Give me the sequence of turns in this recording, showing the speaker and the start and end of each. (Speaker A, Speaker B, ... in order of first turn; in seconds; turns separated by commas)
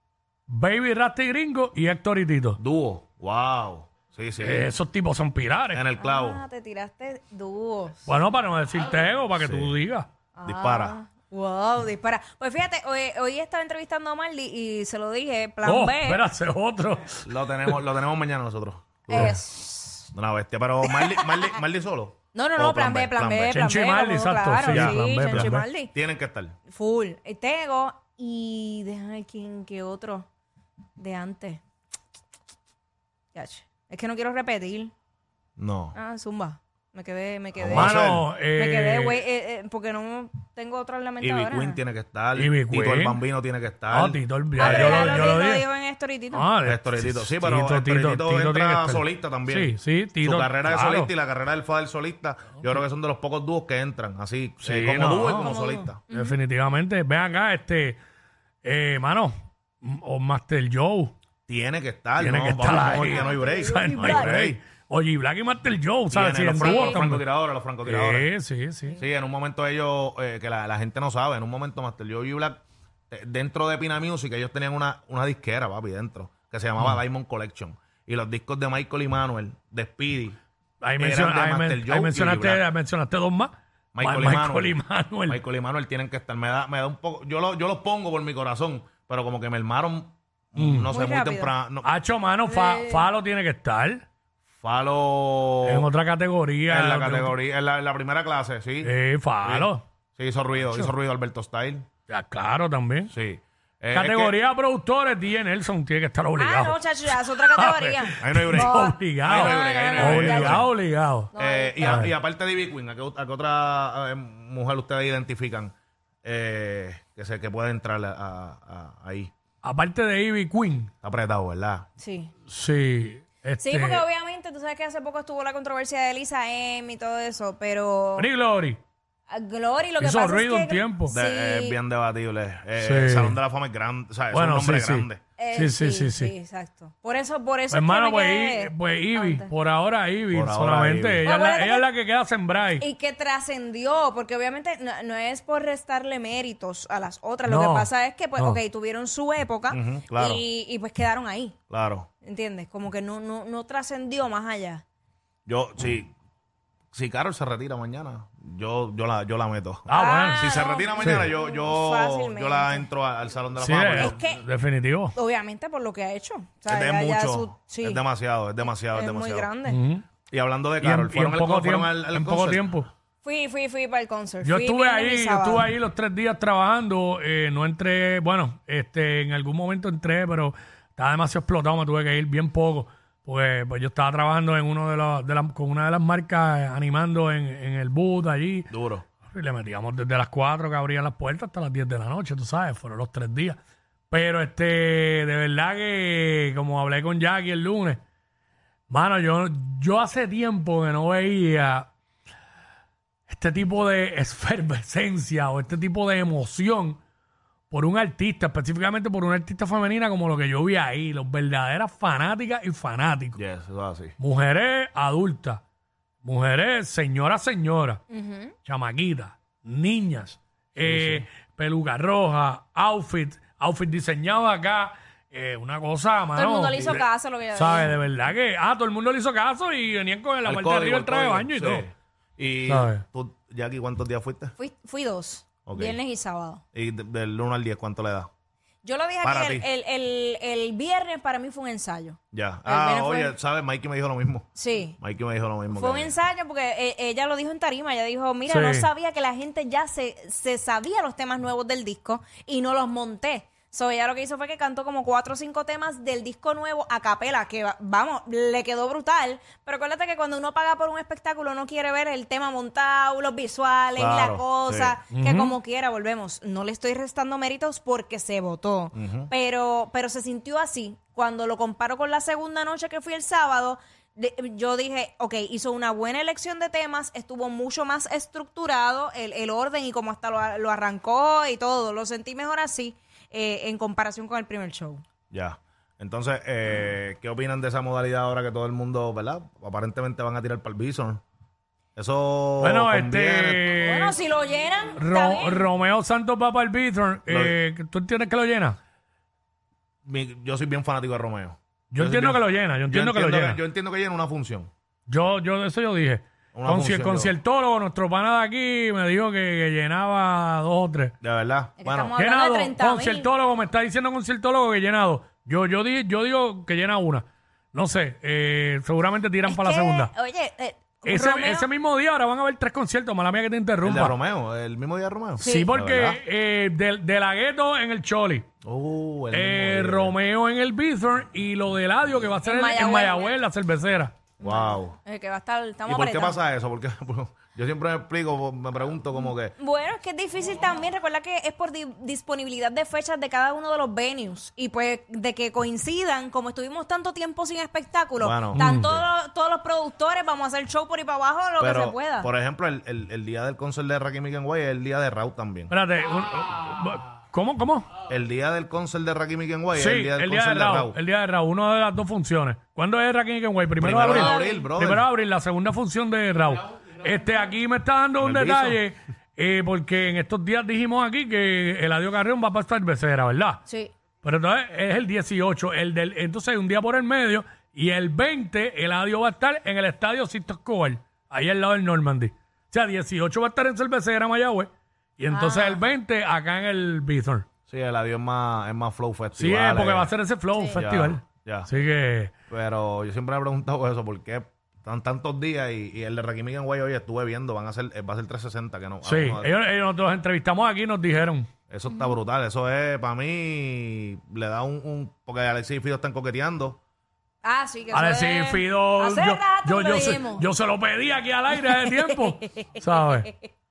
Speaker A: 0.5-2.6, Speaker B: 2.6-4.7, Speaker A: 4.4-5.8, Speaker B: 5.7-6.4, Speaker C: 6.0-8.1, Speaker A: 8.1-10.1, Speaker B: 9.4-9.8, Speaker C: 10.4-16.2, Speaker B: 10.4-11.0, Speaker A: 15.6-17.8, Speaker B: 17.2-19.4, Speaker C: 19.1-20.1, Speaker B: 20.1-23.6, Speaker C: 20.8-21.6, Speaker C: 22.3-25.9, Speaker A: 23.4-25.7, Speaker B: 24.6-26.6, Speaker C: 26.7-30.3, Speaker C: 31.0-31.6, Speaker C: 33.3-34.9, Speaker B: 35.6-36.0, Speaker C: 36.0-41.8, Speaker B: 37.5-38.3, Speaker A: 37.7-39.2, Speaker B: 41.2-45.4, Speaker A: 42.4-43.2, Speaker A: 43.9-45.7, Speaker C: 44.6-46.5, Speaker A: 46.3-51.1, Speaker B: 46.6-56.0, Speaker A: 54.6-55.5, Speaker C: 55.3-56.4, Speaker A: 56.1-58.0, Speaker A: 58.6-61.1, Speaker B: 61.5-64.6, Speaker A: 62.2-67.3, Speaker C: 62.9-64.4, Speaker B: 66.1-68.3, Speaker C: 66.6-67.0, Speaker A: 67.8-69.0, Speaker B: 69.0-80.4, Speaker A: 80.8-85.4, Speaker B: 81.0-82.7, Speaker B: 83.9-91.9, Speaker A: 90.6-91.0, Speaker C: 90.9-91.5, Speaker A: 91.8-94.0, Speaker C: 92.5-93.1, Speaker B: 94.6-95.9, Speaker A: 95.7-97.4, Speaker B: 96.7-101.9, Speaker A: 98.8-99.8, Speaker A: 102.1-103.1, Speaker B: 103.1-104.4, Speaker A: 103.9-112.1, Speaker C: 106.4-110.7, Speaker B: 108.2-110.7, Speaker C: 111.3-112.1, Speaker B: 111.3-115.7, Speaker B: 116.2-119.3, Speaker A: 119.6-120.9, Speaker B: 121.0-121.9, Speaker C: 122.0-122.3, Speaker A: 122.5-124.0, Speaker C: 123.6-128.3, Speaker A: 128.2-128.8, Speaker C: 129.3-131.8, Speaker A: 130.0-131.2, Speaker B: 131.1-135.2, Speaker A: 132.8-133.4, Speaker A: 134.3-136.3, Speaker C: 135.4-139.5, Speaker A: 137.7-142.9, Speaker B: 140.3-141.3, Speaker C: 141.2-141.9, Speaker C: 142.8-151.6, Speaker A: 147.5-148.6, Speaker B: 149.7-150.4, Speaker B: 151.7-152.1, Speaker C: 152.2-154.8, Speaker B: 155.5-156.1, Speaker B: 156.9-164.2, Speaker A: 159.9-161.3, Speaker C: 159.9-162.9, Speaker A: 163.6-165.2, Speaker C: 164.0-164.4, Speaker C: 165.1-168.0, Speaker B: 166.7-169.5, Speaker C: 168.9-169.8, Speaker A: 169.7-170.1, Speaker B: 170.3-172.9, Speaker A: 170.8-172.9, Speaker C: 173.2-175.7, Speaker A: 174.4-188.7, Speaker B: 188.7-189.1, Speaker A: 189.3-193.6, Speaker A: 194.1-198.0, Speaker A: 198.9-201.9, Speaker A: 203.3-207.0, Speaker A: 207.7-213.4, Speaker B: 213.3-214.2, Speaker A: 214.2-215.6, Speaker A: 216.2-218.0, Speaker C: 218.1-218.6, Speaker A: 218.7-231.9, Speaker B: 220.8-221.3, Speaker C: 226.3-228.0, Speaker B: 230.4-234.6, Speaker A: 232.7-233.0, Speaker C: 234.6-236.6, Speaker B: 235.7-236.0, Speaker B: 236.7-238.3, Speaker C: 238.8-243.3, Speaker B: 239.2-239.7, Speaker B: 242.3-244.5, Speaker C: 244.6-245.0, Speaker B: 245.0-246.2, Speaker C: 245.7-285.0, Speaker A: 248.5-248.9, Speaker B: 264.0-265.0, Speaker A: 265.1-265.6, Speaker B: 268.9-269.3, Speaker B: 285.3-291.2, Speaker B: 291.9-293.6, Speaker A: 292.6-294.1, Speaker C: 293.8-295.7, Speaker A: 295.0-298.8, Speaker B: 297.3-297.6, Speaker B: 300.1-304.7, Speaker A: 301.9-303.6, Speaker A: 305.1-311.1, Speaker B: 306.5-307.3, Speaker B: 311.2-312.1, Speaker C: 311.8-313.3, Speaker A: 312.2-320.1, Speaker C: 319.4-321.7, Speaker A: 321.1-324.1, Speaker B: 323.8-326.2, Speaker C: 325.4-325.7, Speaker A: 325.4-328.5, Speaker B: 328.6-330.1, Speaker A: 329.3-334.2, Speaker C: 332.4-333.3, Speaker B: 334.4-335.0, Speaker C: 334.4-336.4, Speaker B: 335.9-339.5, Speaker C: 339.2-352.3, Speaker B: 348.2-349.1, Speaker A: 348.5-348.9, Speaker B: 351.6-355.7, Speaker A: 355.7-357.9, Speaker B: 358.1-361.0, Speaker A: 359.7-373.6, Speaker B: 363.8-365.1, Speaker C: 364.0-364.7, Speaker B: 368.2-368.8, Speaker C: 373.7-373.9, Speaker A: 374.2-387.5, Speaker C: 385.3-385.8, Speaker B: 387.7-390.1, Speaker A: 389.4-392.3, Speaker C: 390.6-390.8, Speaker B: 390.8-391.7, Speaker B: 392.5-399.6, Speaker A: 399.0-401.5, Speaker B: 401.7-406.8, Speaker C: 401.9-402.2, Speaker C: 407.4-410.5, Speaker A: 407.9-413.3, Speaker C: 411.6-413.5